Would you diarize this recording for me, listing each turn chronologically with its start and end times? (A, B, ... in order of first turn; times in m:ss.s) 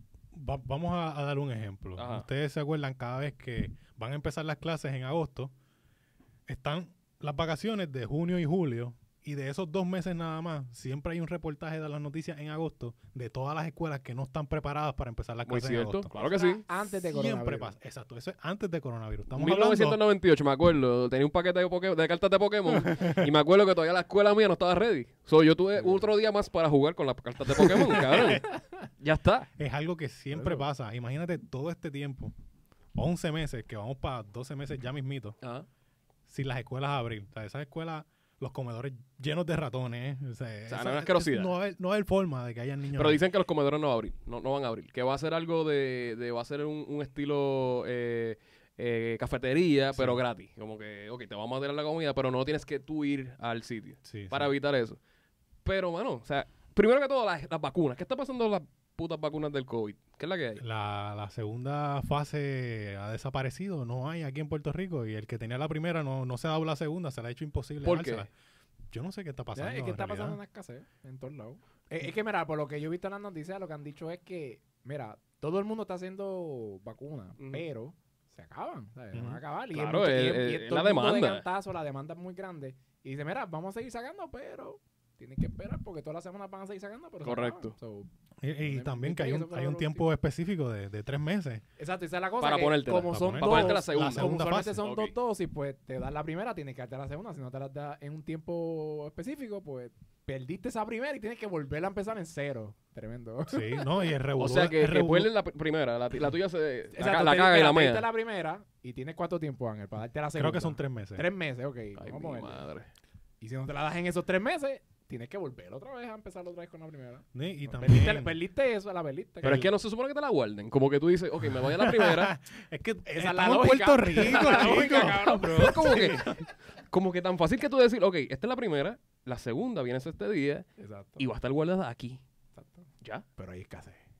0:00.3-0:05.5 A
0:02.0-0:02.3 B
0:06.5-0:16.1 A
0:15.5-0:16.6 B
0:16.1-0:17.7 C
0:16.9-0:20.0 A
0:19.4-0:29.5 B
0:22.7-0:23.3 A
0:27.9-0:28.4 A
0:29.6-0:32.3 A
0:30.3-0:30.7 C
0:33.0-0:35.4 A
0:36.3-0:43.2 A
0:40.7-0:41.6 B
0:43.0-0:55.0 B
0:49.9-0:50.2 A
0:54.0-0:54.5 A
0:55.6-1:00.6 B
1:00.6-1:08.3 A
1:07.8-1:08.3 B
1:08.9-1:10.4 A
1:09.5-1:28.1 C
1:17.4-1:17.6 B
1:19.1-1:19.4 A
1:19.7-1:21.4 B
1:27.2-1:27.7 B
1:28.4-1:31.6 A
1:28.6-1:30.1 C
1:31.8-1:43.9 C
1:32.4-1:35.1 B
1:33.1-1:34.8 A
1:43.5-1:45.3 A
1:44.4-1:48.1 B
1:46.9-1:52.6 C
1:50.4-1:51.2 A
1:52.0-1:52.9 B
1:53.4-1:59.7 C
1:57.3-1:58.4 A
1:59.4-1:59.7 A
1:59.4-2:02.3 B
2:01.4-2:06.5 A
2:03.1-2:05.8 C
2:04.3-2:06.4 B
2:06.9-2:10.7 B
2:10.8-2:11.3 C
2:11.2-2:12.2 B
2:12.6-2:14.0 C